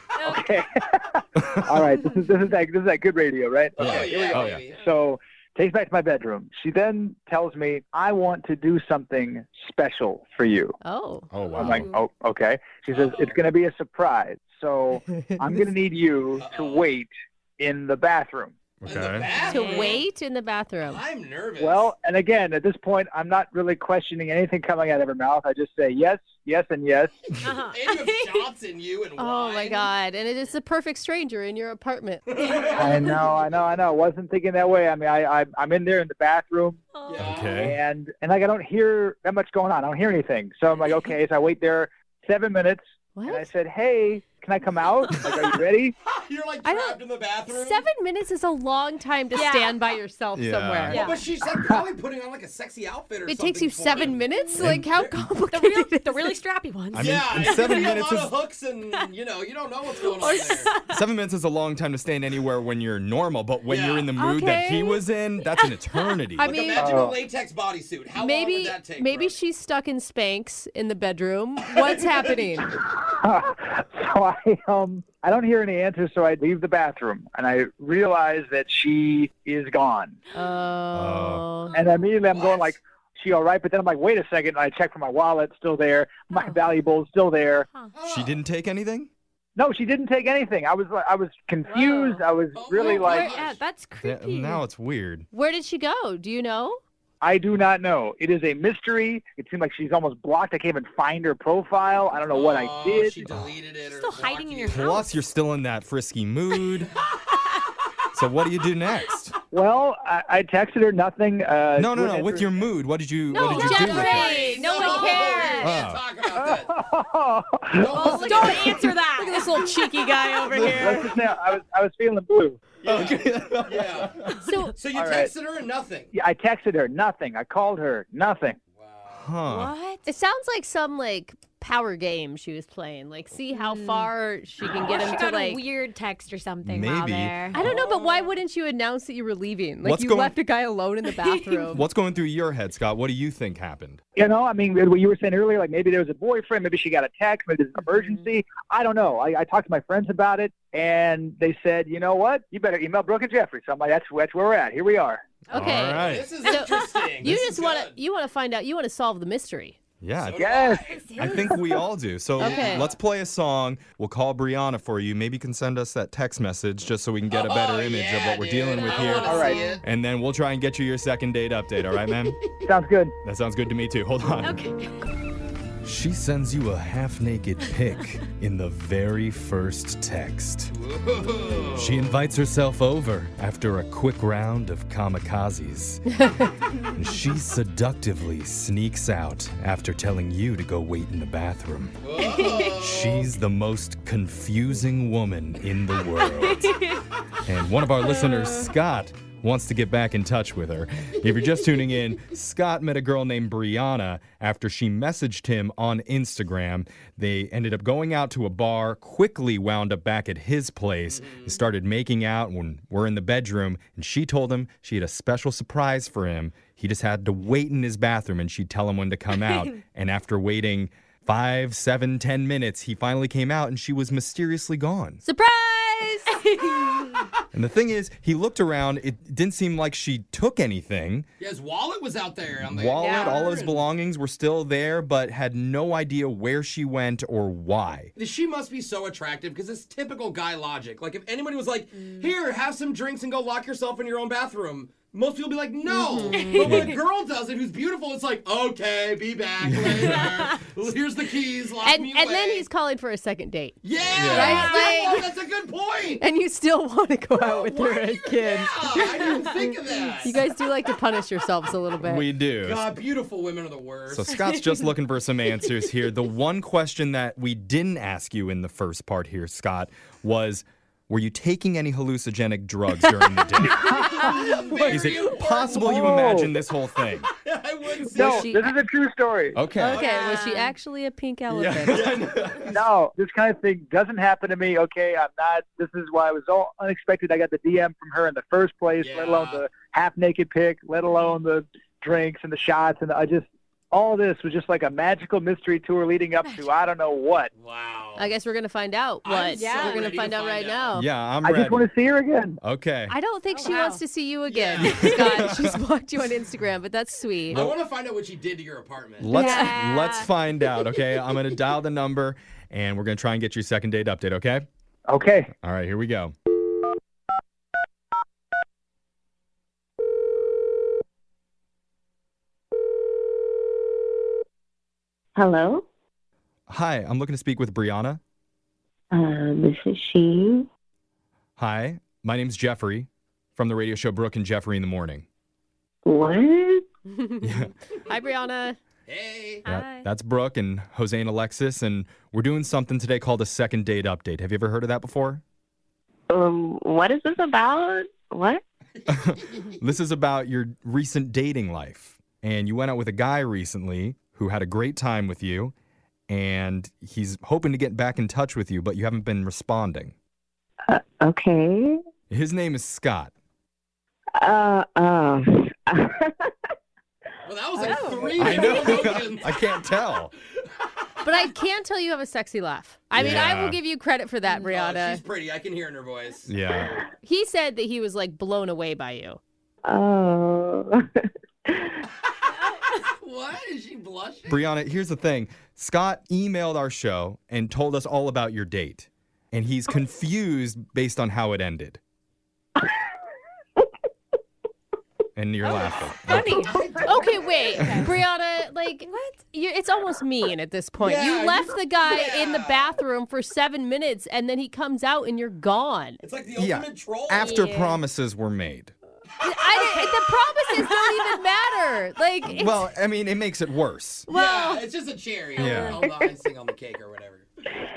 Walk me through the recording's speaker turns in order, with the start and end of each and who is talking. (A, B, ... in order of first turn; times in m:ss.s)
0:00.2-0:00.4 A
0:00.2-0:10.8 B
0:03.8-0:04.6 C
0:03.8-0:04.8 D
0:10.8-0:11.3 E
0:11.3-0:11.9 C
0:11.5-0:18.5 B
0:12.9-0:13.4 D
0:16.4-0:16.9 D
0:18.8-0:19.3 C
0:18.8-0:20.0 D
0:19.4-0:19.9 A
0:19.4-0:21.0 E
0:20.8-0:21.9 D
0:21.6-0:27.1 B
0:27.4-0:28.4 A
0:27.4-0:29.9 D
0:29.2-0:33.1 E
0:32.3-0:33.2 D
0:32.7-0:36.8 B
0:37.0-0:37.6 D
0:37.2-0:37.8 C
0:37.4-0:45.9 B
0:43.1-0:43.5 E
0:46.0-0:47.8 D
0:46.6-0:51.0 E
0:49.3-0:49.8 A
0:50.3-0:51.1 C
0:50.9-0:54.2 D
0:50.9-0:51.2 A
0:53.2-0:56.4 E
0:54.6-0:55.2 C
0:55.5-0:57.8 A
0:56.9-0:58.3 C
0:56.9-1:00.7 D
1:00.1-1:01.0 A
1:00.9-1:06.8 C
1:03.7-1:04.1 D
1:04.2-1:04.9 E
1:04.3-1:04.8 A
1:05.5-1:06.0 A
1:06.4-1:09.4 D
1:06.7-1:07.2 B
1:08.1-1:12.7 E
1:12.9-1:20.2 B
1:20.3-1:21.8 E
1:20.9-1:21.4 C
1:21.7-1:27.7 B
1:22.3-1:22.8 D
1:27.9-1:28.4 D
1:28.0-1:29.1 C
1:29.6-1:33.3 B
1:31.6-1:32.2 A
1:32.5-1:33.6 D
1:32.8-1:34.6 A
1:34.0-1:35.2 C
1:35.3-1:36.8 E
1:37.2-1:43.3 B
1:42.3-1:44.9 D
1:43.9-1:45.2 A
1:44.6-1:46.9 C
1:48.1-1:49.3 C
1:49.5-1:52.5 B
1:51.8-1:54.5 C
1:53.3-1:55.8 E
1:53.3-1:55.8 A
1:53.7-1:56.7 D
1:55.6-1:56.0 C
1:56.3-1:58.9 B
1:57.8-1:58.9 D
1:57.9-2:01.1 A
1:58.0-2:01.1 E
2:00.5-2:01.0 C
2:00.6-2:02.6 B
2:02.8-2:06.1 D
2:02.9-2:04.4 C
2:04.4-2:04.8 E
2:04.9-2:05.3 B
2:06.1-2:08.6 B
2:08.8-2:09.4 D
2:09.1-2:09.7 C
2:09.5-2:10.0 A
2:10.0-2:15.6 E
2:13.5-2:14.1 A
2:14.7-2:18.3 A
2:16.6-2:17.7 C
2:17.5-2:21.9 E
2:19.8-2:20.3 C
2:21.2-2:21.6 A
2:21.7-2:24.0 C
2:24.2-2:35.2 B
2:35.5-2:39.8 E
2:35.5-2:36.3 C
2:35.6-2:35.8 A
2:36.0-2:38.0 D
2:40.0-2:40.4 C
2:40.2-2:41.0 D
2:40.3-2:41.5 B
2:40.8-2:41.6 A
2:41.2-2:52.4 C
2:42.4-2:42.9 E
2:42.4-2:42.9 D
2:47.3-2:49.8 D
2:49.0-2:49.7 A
2:49.2-2:49.6 B
2:52.6-2:53.1 B
2:53.2-2:54.6 C
2:54.4-2:54.9 A
2:55.8-3:00.7 C
3:00.7-3:02.1 D
3:01.7-3:06.2 C
3:06.9-3:12.0 C
3:12.0-3:13.3 D
3:12.6-3:16.8 C
3:16.2-3:16.9 A
3:17.4-3:45.2 C
3:31.1-3:31.6 D
3:45.2-3:47.0 E
3:46.5-3:47.2 A
3:47.5-3:51.2 C
3:51.4-3:53.9 D
3:52.6-3:58.1 C
3:53.0-3:53.4 A
3:58.2-4:12.7 D
4:05.8-4:06.7 E
4:06.3-4:06.9 A
4:06.6-4:07.0 C
4:09.6-4:10.3 C
4:11.8-4:15.3 E
4:13.8-4:16.2 D
4:14.1-4:14.8 C
4:16.2-4:19.4 E
4:17.4-4:20.4 D
4:20.2-4:22.3 E
4:22.0-4:22.9 C
4:22.6-4:24.4 D
4:24.1-4:34.3 C
4:33.6-4:36.2 D
4:33.9-4:35.0 B
4:34.9-4:37.3 C
4:35.7-4:36.5 B
4:37.3-4:38.5 D
4:38.0-4:39.6 B
4:38.2-4:38.7 E
4:39.5-4:40.0 C
4:39.8-4:42.1 E
4:39.9-4:40.5 D
4:40.0-4:40.7 A
4:41.5-4:42.8 C
4:41.8-4:42.8 D
4:42.7-4:57.5 B
4:49.0-4:49.6 D
4:57.6-4:58.3 D
4:58.2-5:01.1 E
4:59.2-5:01.0 D
4:59.5-5:00.1 A
5:00.9-5:01.9 C
5:01.4-5:02.6 B
5:02.6-5:03.1 C
5:03.1-5:07.6 E
5:03.5-5:04.0 A
5:04.5-5:05.4 D
5:04.8-5:05.6 C
5:07.5-5:07.8 C
5:07.5-5:09.3 D
5:09.2-5:14.6 C
5:09.3-5:09.8 E
5:09.4-5:10.3 A
5:15.1-5:15.5 B
5:15.6-5:16.3 C
5:25.4-5:25.8 F
5:26.7-5:28.2 C
5:29.1-5:30.6 F
5:31.6-5:35.2 C
5:36.0-5:36.8 F
5:37.1-5:38.8 E
5:37.4-5:37.7 C
5:39.1-5:39.6 D
5:39.7-5:40.0 A
5:39.7-5:45.4 C
5:46.3-5:48.6 F
5:49.1-5:55.7 C
5:56.3-6:00.1 C
6:00.9-6:02.0 F
6:02.3-6:03.3 C
6:04.4-6:06.7 F
6:07.4-6:09.7 D
6:07.9-6:08.2 A
6:08.3-6:08.9 F
6:08.3-6:10.3 C
6:11.2-6:15.2 E
6:13.2-6:13.8 C
6:14.6-6:16.5 D
6:16.5-6:17.0 C
6:17.2-6:19.4 E
6:19.8-6:22.0 F
6:22.5-6:24.5 D
6:24.5-6:32.0 C
6:35.4-6:36.7 C
6:35.6-6:36.8 A
6:36.6-6:37.8 D
6:37.0-6:46.2 E
6:37.6-6:38.1 A
6:37.8-6:38.2 C
6:39.0-6:39.4 A
6:41.0-6:43.0 D
6:46.2-6:47.6 D
6:46.6-6:48.9 C
6:47.4-6:48.0 A
6:49.4-6:52.9 E
6:52.4-6:54.3 C
6:54.3-6:57.5 D
6:54.3-6:54.7 A
6:55.6-6:56.0 C
6:55.6-6:56.0 A